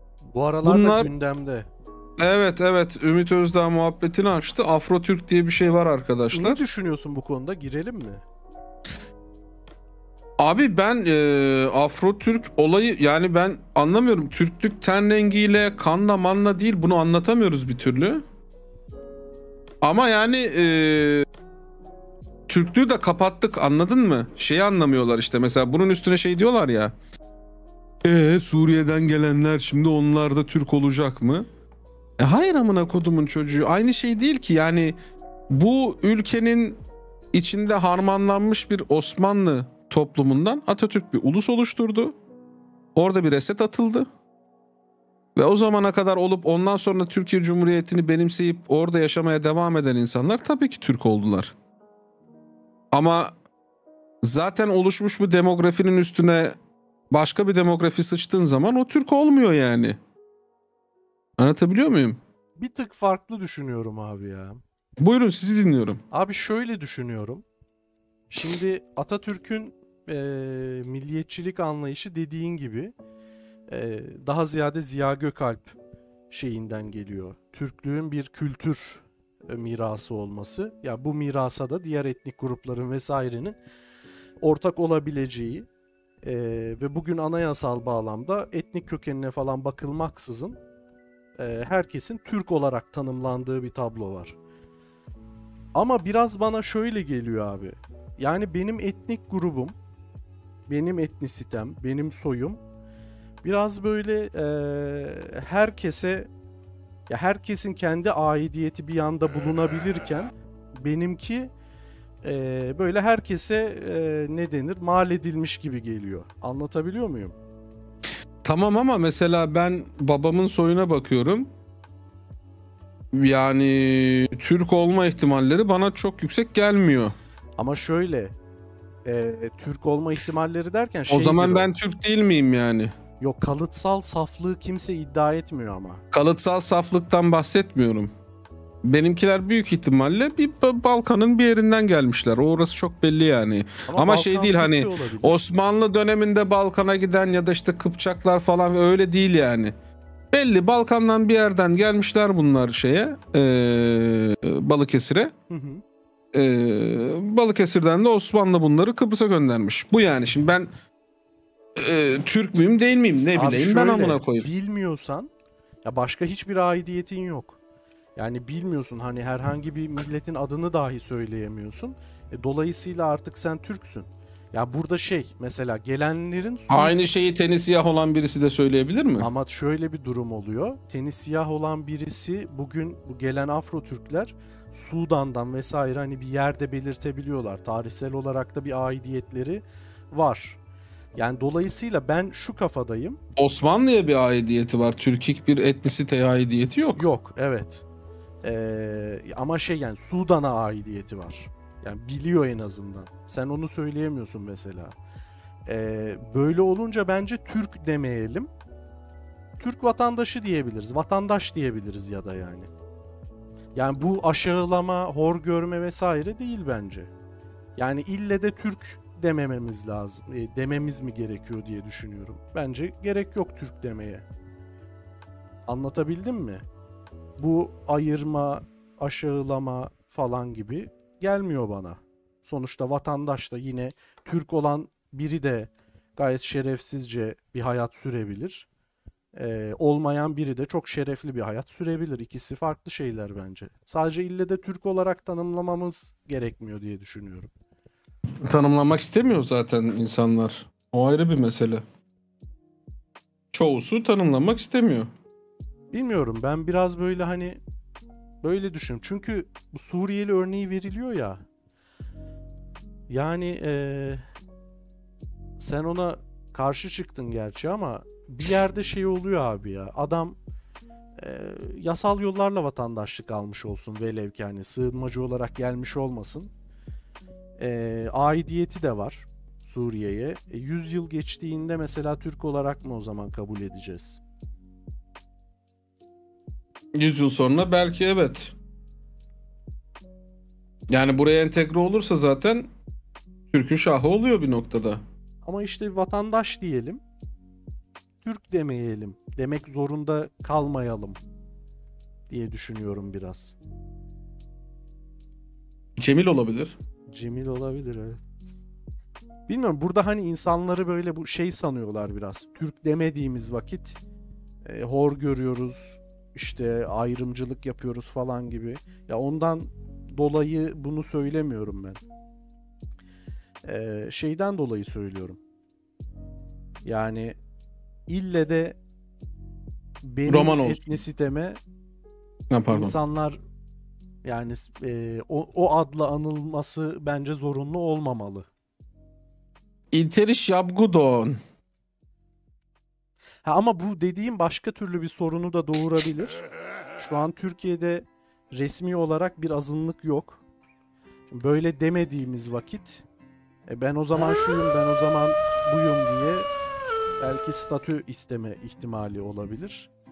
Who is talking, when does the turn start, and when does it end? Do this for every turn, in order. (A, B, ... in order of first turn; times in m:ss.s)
0:00.3-0:01.7 A
0:00.6-0:01.1 B
0:02.2-0:06.6 B
0:06.3-0:08.2 A
0:10.4-0:18.2 B
0:19.8-0:21.2 B
0:22.5-0:26.9 B
0:28.0-0:31.5 B
0:32.2-0:35.0 B
0:35.5-0:36.8 B
0:37.3-0:42.1 B
0:42.9-0:44.1 B
0:45.4-0:51.5 B
0:52.9-0:53.3 B
0:54.2-0:56.6 B
0:57.1-1:00.0 B
1:01.4-1:02.2 B
1:02.6-1:04.6 A
1:05.0-1:06.0 B
1:06.1-1:07.4 A
1:08.3-1:12.9 A
1:13.7-1:15.8 A
1:16.3-1:23.6 A
1:24.4-1:25.7 A
1:26.2-1:30.6 A
1:31.4-1:34.4 A
1:35.7-1:39.8 A
1:40.7-1:42.6 A
1:43.4-1:46.3 A
1:47.1-1:51.5 A
1:52.2-1:57.4 A
1:58.4-2:01.5 B
2:03.1-2:07.1 B
2:07.6-2:08.3 A
2:09.0-2:11.7 A
2:11.1-2:12.9 B
2:13.2-2:16.0 A
2:16.1-2:18.1 B
2:18.8-2:29.7 B
2:23.9-2:25.5 A
2:30.3-2:35.3 B
2:35.5-2:35.8 A
2:36.3-2:40.7 B
2:41.8-2:44.5 B
2:43.3-2:45.3 A
2:45.8-2:47.6 A
2:48.2-2:57.0 A
2:56.7-2:59.3 B
2:59.2-3:10.6 A
3:11.2-3:13.2 A
3:13.4-3:17.0 B
3:17.0-3:17.8 A
3:18.4-3:25.0 A
3:25.6-3:28.5 A
3:29.6-3:32.7 A
3:33.7-3:37.1 A
3:37.8-3:44.2 A
3:45.7-3:46.6 A
3:47.4-3:58.7 A
3:59.3-4:07.5 A
4:08.4-4:11.8 B
4:13.5-4:15.1 B
4:15.9-4:17.6 A
4:18.4-4:21.4 A
4:23.1-4:24.2 A
4:25.6-4:30.4 A
4:31.2-4:36.5 A
4:37.6-4:44.2 A
4:47.0-4:48.5 B
4:50.9-4:52.7 B
4:53.5-4:55.0 B
4:55.4-4:57.0 A
4:58.2-5:01.2 A
5:02.3-5:03.6 A
5:06.0-5:06.8 B
5:07.1-5:08.2 A
5:09.5-5:14.0 A
5:14.6-5:22.0 A
5:23.6-5:25.4 A
5:26.8-5:27.4 A
5:28.1-5:28.8 A
5:30.0-5:31.6 A
5:30.3-5:30.8 B
5:32.5-5:32.9 B
5:32.7-5:33.4 A
5:34.2-5:38.5 A
5:39.9-5:41.4 B
5:43.4-5:46.4 A
5:47.0-5:50.4 A
5:51.3-5:53.0 A
5:53.7-5:56.5 A
5:57.2-5:59.9 A